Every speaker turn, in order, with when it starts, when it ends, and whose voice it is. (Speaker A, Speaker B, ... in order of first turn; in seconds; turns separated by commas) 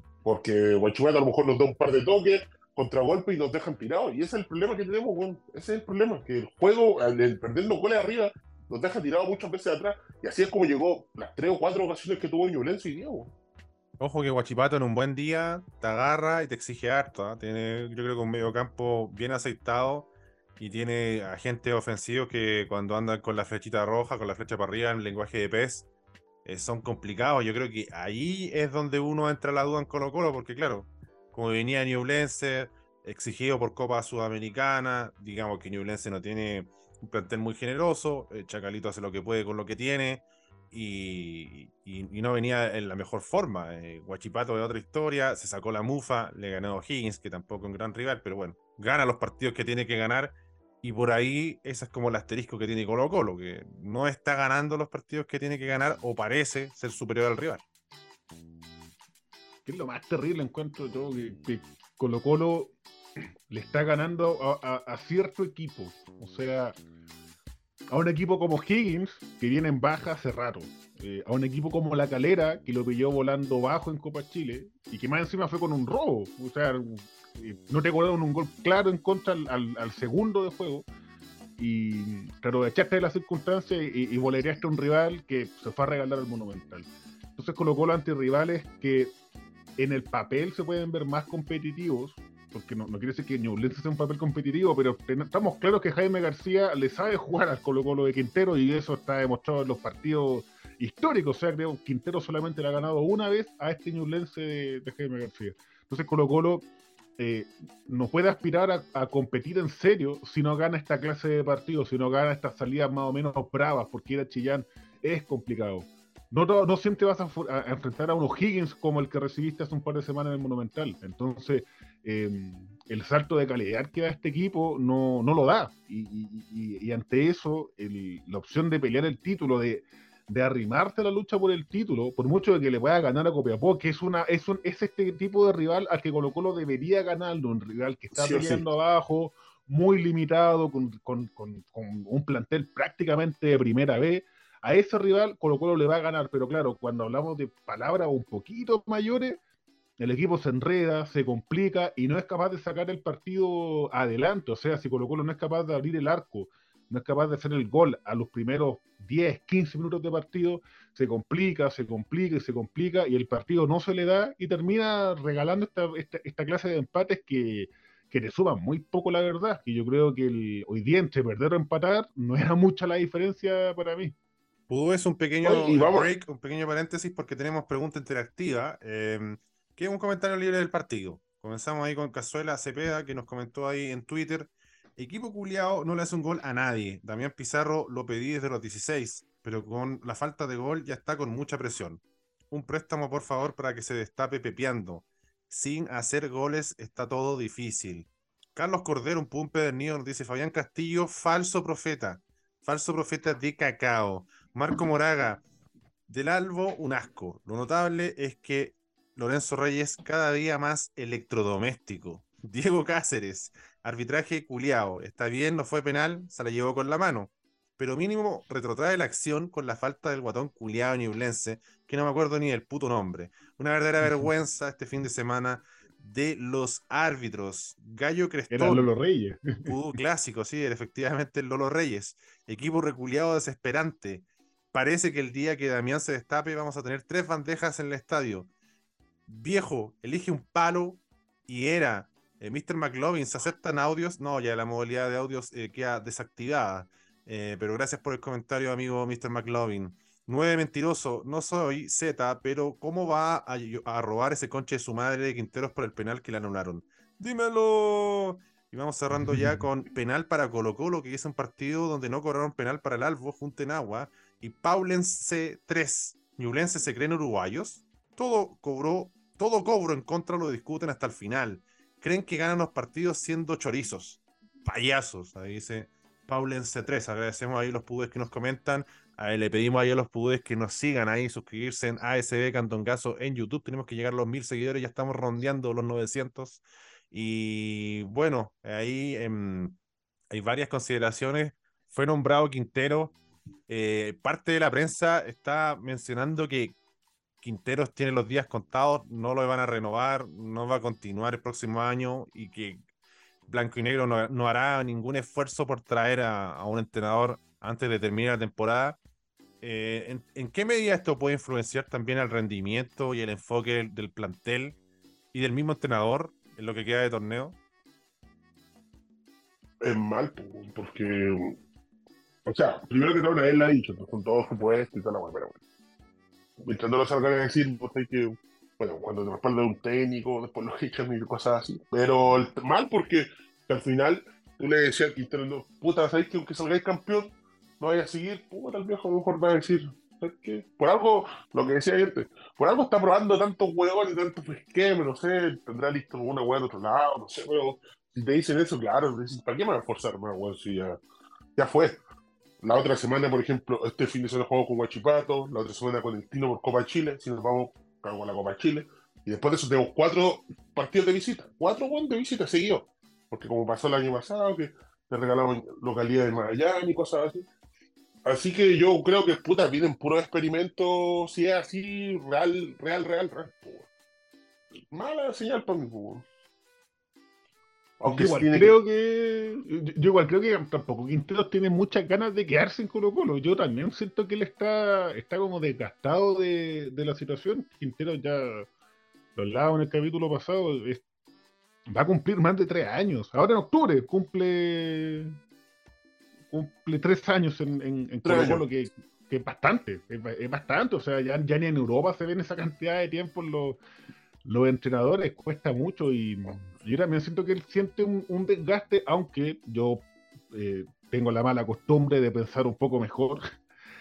Speaker A: 0.2-13.3, Speaker B: 14.0-25.9, Speaker B: 26.4-57.6, Speaker C: 59.6-62.8, Speaker C: 63.5-66.8, Speaker C: 67.9-80.8, Speaker C: 81.6-89.1, Speaker C: 89.8-106.7, Speaker C: 107.2-149.4, Speaker A: 138.1-138.6, Speaker C: 150.0-174.1, Speaker B: 174.7-205.4, Speaker A: 175.4-176.1, Speaker B: 206.1-228.9, Speaker C: 228.5-229.9, Speaker B: 229.7-238.5, Speaker B: 239.3-289.8, Speaker C: 259.1-259.7, Speaker B: 290.3-293.1, Speaker B: 293.7-296.8, Speaker B: 297.4-302.8, Speaker B: 303.5-309.0, Speaker B: 309.6-314.8, Speaker B: 315.3-317.6, Speaker A: 319.8-321.6, Speaker A: 322.4-325.6, Speaker A: 326.6-351.0, Speaker A: 351.6-352.0, Speaker A: 352.6-367.5, Speaker A: 368.2-373.9, Speaker A: 374.9-376.2, Speaker A: 378.0-378.8, Speaker C: 378.1-388.7, Speaker C: 389.4-391.0, Speaker C: 391.9-395.4, Speaker C: 396.5-403.8, Speaker A: 398.2-398.6, Speaker C: 404.4-413.5